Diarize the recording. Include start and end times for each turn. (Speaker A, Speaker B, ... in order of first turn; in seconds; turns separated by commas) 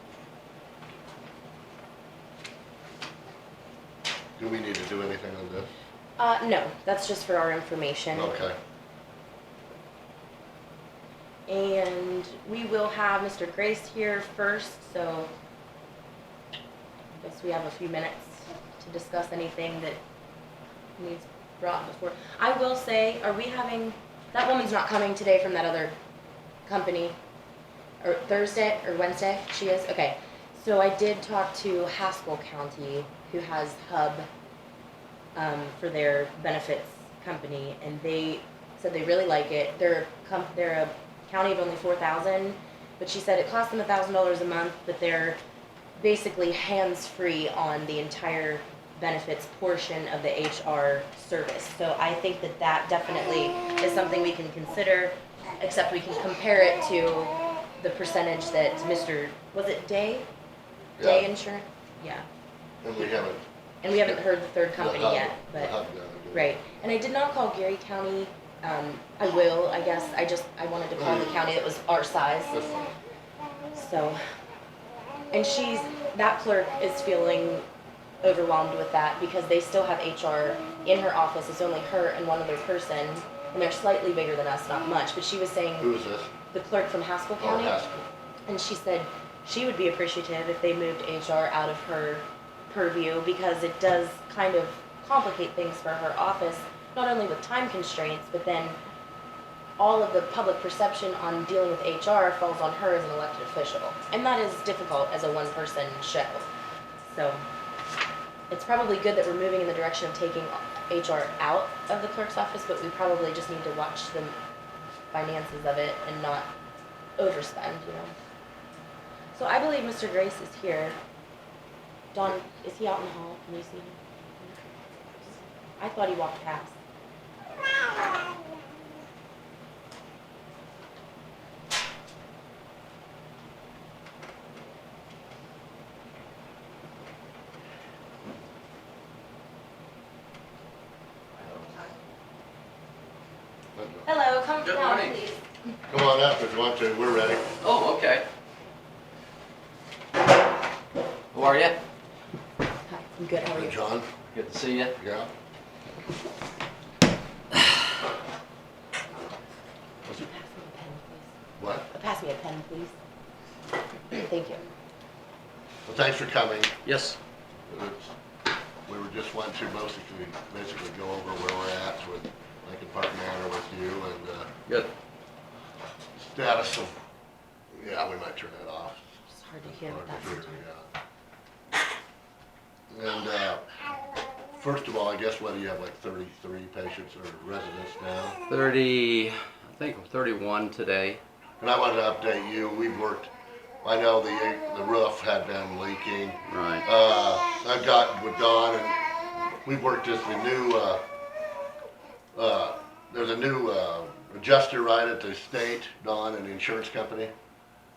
Speaker A: 4.4-5.7, Speaker B: 6.2-8.4, Speaker A: 8.1-8.6, Speaker B: 11.5-15.3, Speaker B: 17.1-20.0, Speaker B: 21.0-25.9, Speaker B: 26.6-27.1, Speaker B: 28.0-34.3, Speaker B: 35.3-45.4, Speaker B: 46.0-60.3, Speaker A: 61.0-61.3, Speaker B: 61.0-62.3, Speaker A: 62.8-63.4, Speaker B: 63.8-65.7, Speaker A: 64.8-66.6, Speaker B: 66.3-72.6, Speaker A: 71.0-71.3, Speaker A: 72.5-72.9, Speaker B: 73.7-74.2, Speaker B: 75.3-77.6, Speaker B: 78.2-85.9, Speaker A: 85.8-86.3, Speaker B: 86.5-87.8, Speaker A: 87.4-88.1, Speaker B: 88.5-98.8, Speaker B: 99.8-106.5, Speaker B: 107.0-107.4, Speaker B: 108.5-114.3, Speaker B: 115.1-116.5, Speaker B: 117.2-118.1, Speaker B: 119.3-121.0, Speaker B: 122.1-124.5, Speaker B: 125.8-126.7, Speaker A: 143.7-144.1, Speaker B: 144.1-145.4, Speaker C: 144.6-145.2, Speaker A: 145.9-147.5, Speaker C: 147.6-148.2, Speaker C: 151.3-151.8, Speaker B: 152.9-153.9, Speaker A: 153.5-154.1, Speaker C: 154.3-154.9, Speaker A: 155.0-155.3, Speaker B: 160.1-161.3, Speaker A: 161.6-161.8, Speaker B: 161.9-162.9, Speaker B: 164.1-164.6, Speaker A: 165.8-166.7, Speaker C: 166.8-167.2, Speaker A: 167.7-168.1, Speaker A: 168.8-174.5, Speaker A: 176.2-176.9, Speaker A: 177.7-179.0, Speaker B: 179.3-180.6, Speaker A: 179.6-180.9, Speaker A: 182.9-183.9, Speaker A: 184.6-188.4, Speaker C: 188.5-191.2, Speaker A: 191.6-193.3, Speaker A: 193.8-198.9, Speaker C: 196.5-196.8, Speaker A: 199.6-201.0, Speaker A: 202.3-207.3